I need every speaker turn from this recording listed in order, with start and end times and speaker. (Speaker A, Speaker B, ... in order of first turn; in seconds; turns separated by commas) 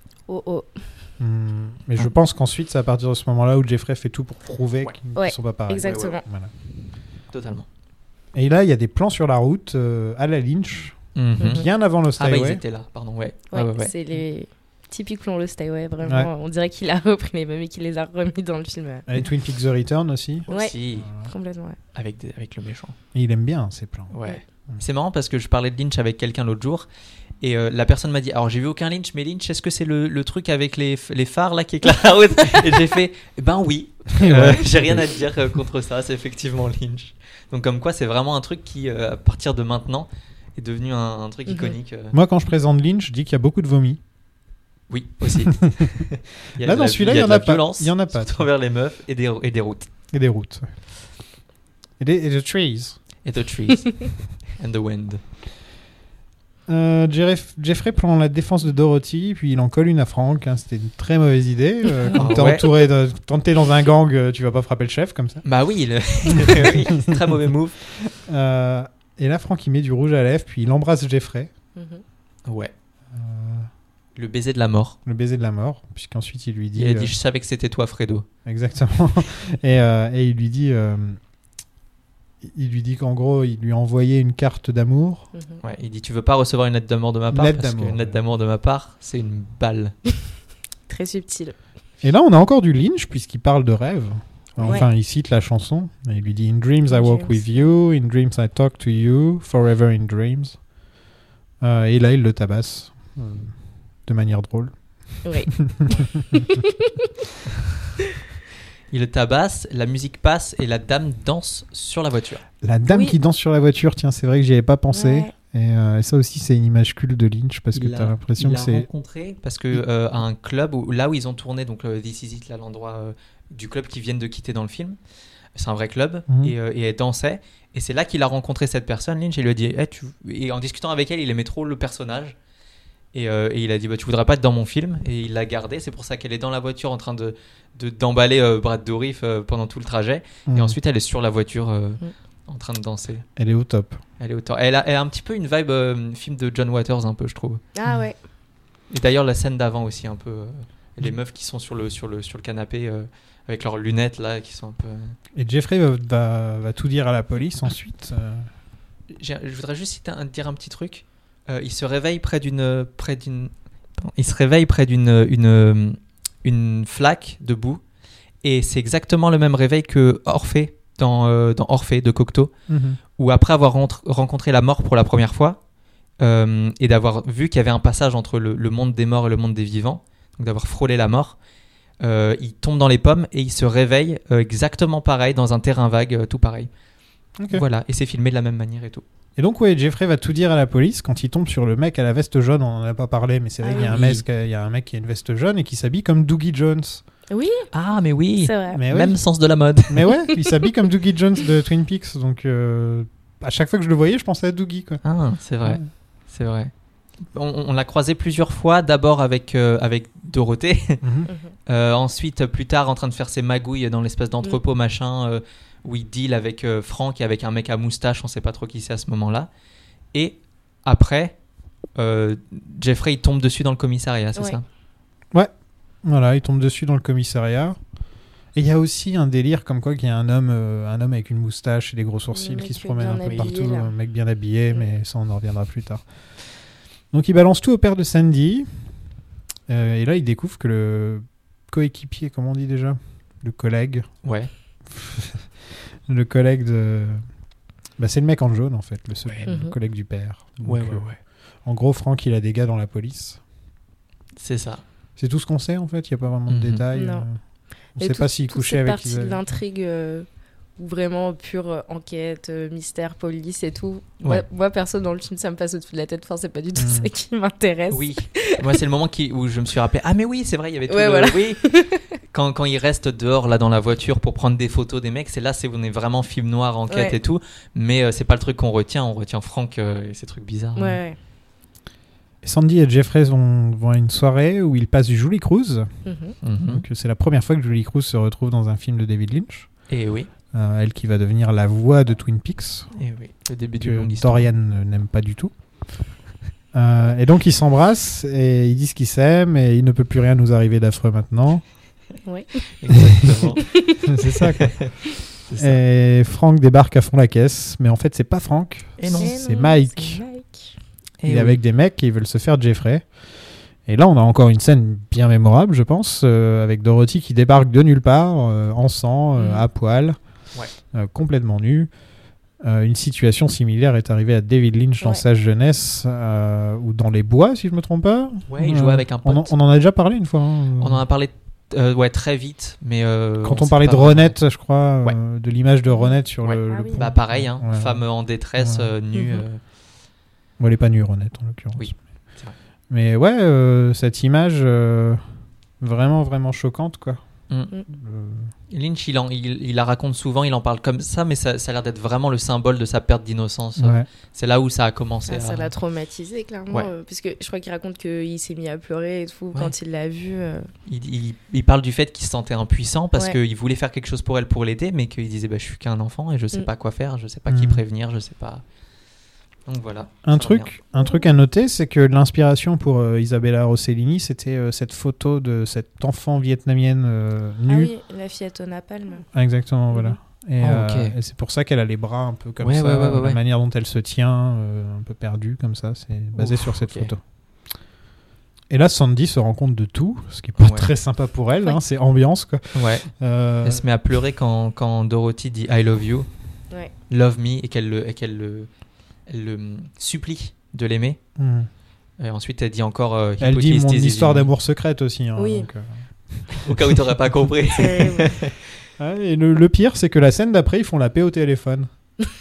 Speaker A: 0.3-0.7, Speaker B: 1.2-6.5, Speaker A: 5.1-6.2, Speaker C: 5.8-6.1, Speaker C: 7.3-7.7, Speaker B: 8.3-12.6, Speaker C: 11.1-11.6, Speaker C: 12.2-13.9, Speaker A: 13.5-19.1, Speaker B: 16.0-16.3, Speaker B: 19.1-21.3, Speaker C: 20.5-21.1, Speaker A: 20.5-21.8, Speaker C: 21.9-22.9, Speaker B: 23.1-24.1, Speaker C: 24.1-26.9, Speaker C: 27.4-42.1, Speaker B: 34.1-35.0, Speaker A: 41.5-41.8, Speaker B: 42.1-44.0, Speaker C: 44.9-49.9, Speaker B: 45.5-45.8, Speaker B: 46.6-48.5, Speaker B: 50.1-50.7, Speaker B: 52.0-53.0, Speaker C: 53.2-55.2, Speaker B: 56.7-65.4, Speaker C: 62.1-62.7, Speaker C: 65.4-67.8, Speaker B: 66.2-67.2, Speaker B: 68.0-71.5, Speaker A: 71.8-72.0, Speaker C: 72.5-72.7, Speaker B: 73.1-73.7, Speaker C: 74.2-75.0, Speaker B: 75.0-77.1, Speaker C: 76.8-78.2, Speaker B: 78.4-81.2, Speaker B: 82.4-85.3, Speaker A: 85.3-85.6, Speaker C: 85.6-90.0, Speaker B: 87.3-88.1, Speaker A: 90.9-91.5, Speaker B: 92.0-100.6, Speaker A: 96.9-97.8, Speaker B: 101.6-103.5, Speaker B: 104.0-106.6, Speaker A: 105.2-105.5, Speaker A: 106.5-106.9, Speaker C: 108.9-112.4, Speaker B: 112.6-118.9, Speaker A: 112.9-113.1, Speaker A: 114.9-115.3, Speaker C: 117.7-125.0, Speaker C: 125.5-132.3, Speaker B: 126.3-126.5, Speaker C: 133.1-143.2, Speaker B: 140.4-140.8, Speaker B: 143.3-144.0, Speaker C: 144.2-147.6, Speaker A: 147.7-148.2, Speaker C: 148.9-155.2, Speaker B: 155.3-158.5, Speaker C: 159.1-167.8, Speaker C: 168.4-172.5, Speaker B: 172.7-173.0, Speaker C: 173.2-175.6, Speaker C: 176.2-181.4, Speaker C: 182.0-186.7, Speaker B: 187.4-187.6, Speaker C: 187.5-189.0, Speaker B: 189.4-197.0, Speaker A: 193.6-193.9, Speaker C: 193.8-194.2, Speaker A: 197.3-197.7, Speaker C: 197.7-200.1, Speaker A: 198.4-198.8, Speaker B: 198.7-199.2, Speaker B: 199.9-205.0, Speaker C: 205.0-206.7, Speaker C: 207.3-211.0, Speaker B: 211.0-211.3, Speaker C: 211.7-219.5, Speaker C: 220.1-221.3, Speaker C: 221.9-224.6, Speaker B: 226.0-227.8, Speaker B: 228.5-236.0, Speaker A: 232.3-233.9, Speaker B: 237.1-238.7, Speaker B: 239.7-244.1, Speaker C: 244.2-244.5, Speaker B: 244.9-247.2, Speaker B: 248.0-253.4, Speaker A: 249.4-249.7, Speaker C: 250.6-251.2, Speaker C: 254.4-254.8, Speaker B: 255.2-257.4, Speaker C: 256.5-256.8, Speaker A: 256.9-257.2, Speaker B: 258.0-259.4, Speaker A: 258.0-260.2, Speaker A: 260.8-268.6, Speaker B: 266.8-267.1, Speaker C: 267.9-271.6, Speaker A: 270.9-272.0, Speaker C: 272.3-281.0, Speaker A: 276.9-277.1, Speaker A: 280.8-281.2, Speaker B: 282.4-285.9, Speaker A: 286.1-286.4, Speaker C: 286.4-286.8, Speaker B: 286.6-289.7, Speaker C: 289.9-290.3, Speaker B: 290.5-292.9, Speaker C: 292.9-294.5, Speaker B: 293.8-295.5, Speaker B: 296.7-301.6, Speaker A: 302.2-302.6, Speaker C: 302.7-303.8, Speaker B: 304.1-304.8, Speaker C: 304.6-304.9, Speaker C: 305.5-305.8, Speaker B: 305.6-310.2, Speaker C: 309.0-309.3, Speaker A: 309.1-310.7, Speaker C: 311.2-311.6, Speaker B: 311.2-313.0, Speaker B: 313.8-320.2, Speaker A: 319.4-319.6, Speaker B: 320.9-321.9, Speaker B: 322.6-331.0, Speaker C: 328.5-329.5, Speaker C: 330.8-334.4, Speaker B: 333.4-338.0, Speaker A: 335.9-336.1, Speaker C: 336.4-339.6, Speaker A: 336.7-337.0, Speaker B: 338.6-338.9, Speaker A: 339.1-339.4, Speaker B: 340.6-341.9, Speaker C: 341.8-342.5, Speaker B: 342.9-345.2, Speaker B: 345.8-347.2, Speaker B: 347.9-348.5, Speaker C: 348.7-355.7, Speaker B: 353.8-354.1, Speaker A: 355.3-360.7, Speaker C: 360.9-368.6, Speaker B: 367.5-367.8, Speaker C: 369.7-370.7, Speaker B: 370.2-377.9, Speaker A: 370.9-371.3, Speaker A: 377.7-379.2, Speaker B: 379.3-387.2, Speaker A: 379.9-380.2, Speaker C: 380.6-381.1, Speaker C: 382.6-383.4, Speaker C: 386.3-387.1, Speaker B: 388.7-393.8, Speaker C: 390.6-390.9, Speaker C: 392.7-393.1, Speaker C: 393.6-396.3, Speaker C: 397.1-398.7, Speaker C: 399.3-401.2, Speaker B: 401.4-401.7, Speaker C: 402.2-404.5, Speaker B: 403.4-406.9, Speaker A: 405.4-405.7, Speaker C: 406.6-408.5, Speaker A: 407.7-408.4, Speaker B: 409.0-411.9